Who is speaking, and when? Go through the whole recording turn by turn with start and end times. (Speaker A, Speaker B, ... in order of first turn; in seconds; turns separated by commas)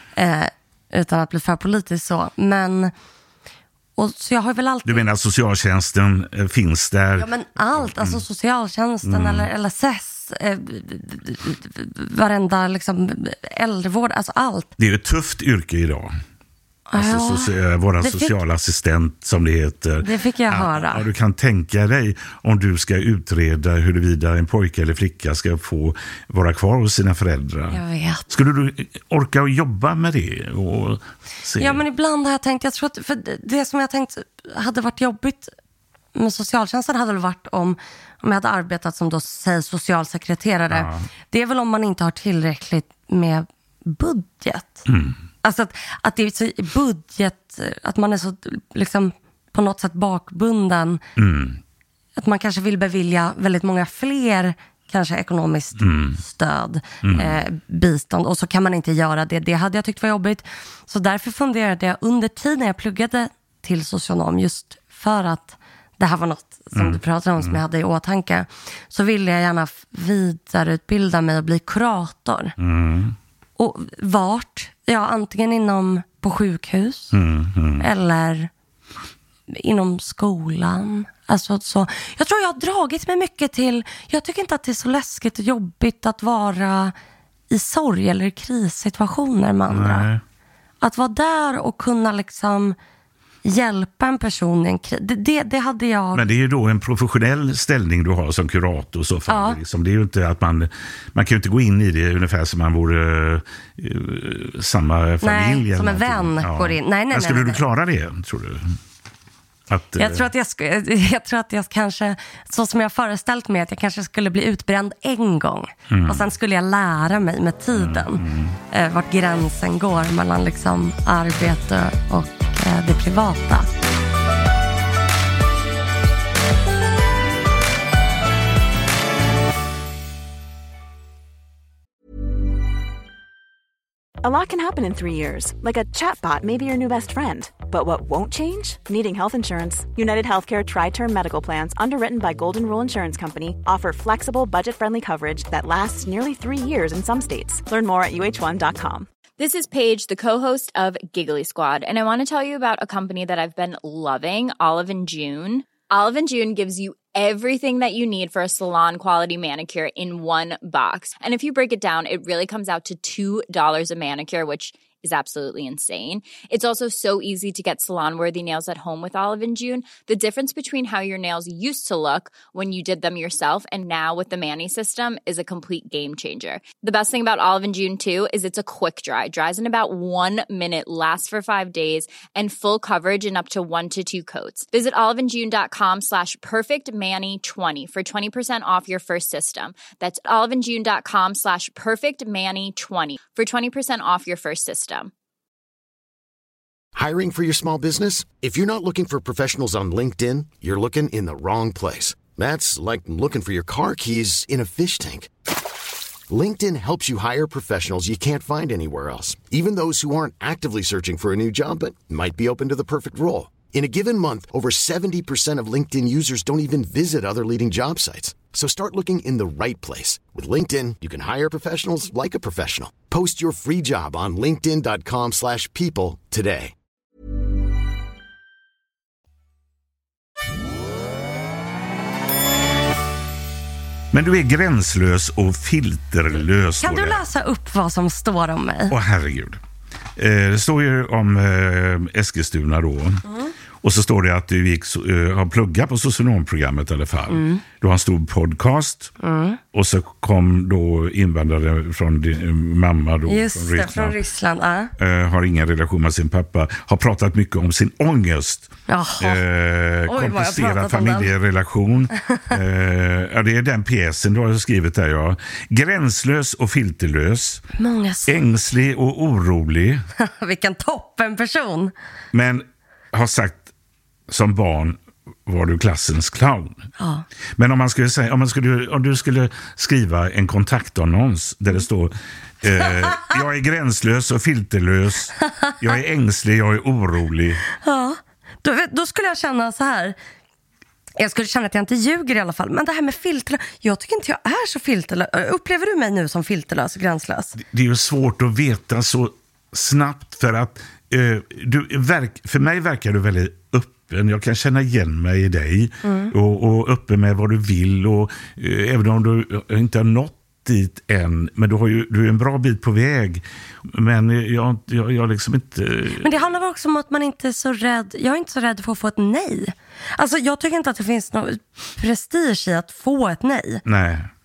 Speaker A: 0.1-2.9, Speaker A: 4.0-5.0, Speaker B: 4.8-8.2, Speaker A: 7.2-14.7, Speaker B: 9.0-9.5, Speaker B: 14.8-16.1, Speaker A: 16.9-18.4, Speaker B: 16.9-31.8, Speaker A: 20.0-21.1, Speaker A: 27.7-28.3, Speaker A: 31.6-35.5, Speaker A: 36.1-44.8, Speaker B: 40.7-41.1, Speaker B: 44.9-45.2, Speaker A: 45.4-51.0, Speaker B: 51.1-51.6, Speaker A: 52.2-72.5, Speaker B: 55.8-56.2, Speaker B: 57.0-57.4, Speaker B: 66.7-67.6, Speaker B: 72.6-73.2, Speaker A: 73.6-77.1, Speaker B: 77.1-77.9, Speaker A: 77.8-78.5, Speaker A: 79.5-86.9, Speaker A: 87.5-90.1, Speaker B: 89.7-90.2, Speaker A: 90.8-92.8, Speaker A: 93.4-96.2, Speaker B: 96.1-108.8, Speaker A: 99.3-99.6, Speaker A: 105.2-107.6, Speaker B: 109.7-110.2, Speaker A: 110.0-123.7, Speaker B: 115.9-116.3, Speaker B: 117.7-118.6, Speaker C: 134.2-149.1, Speaker D: 149.4-195.1, Speaker E: 196.9-205.3, Speaker E: 206.3-226.7, Speaker B: 234.1-237.2, Speaker A: 236.8-238.9, Speaker B: 238.9-239.6, Speaker B: 240.2-243.2, Speaker A: 243.3-243.5, Speaker B: 243.8-249.1, Speaker A: 247.3-247.6, Speaker A: 249.2-249.6, Speaker B: 249.7-254.2, Speaker A: 253.3-254.9, Speaker B: 255.0-267.6, Speaker A: 258.9-259.4, Speaker A: 260.0-261.3, Speaker A: 262.3-262.6, Speaker A: 267.8-268.4, Speaker B: 268.3-270.1, Speaker A: 270.2-271.9, Speaker B: 272.3-273.7, Speaker B: 274.3-276.8, Speaker A: 277.0-277.2, Speaker B: 277.6-287.6, Speaker A: 282.8-283.3, Speaker A: 285.4-285.9, Speaker A: 287.7-290.1, Speaker A: 291.2-297.6, Speaker B: 297.6-316.4, Speaker A: 306.0-306.3, Speaker A: 316.2-323.8, Speaker B: 323.9-324.3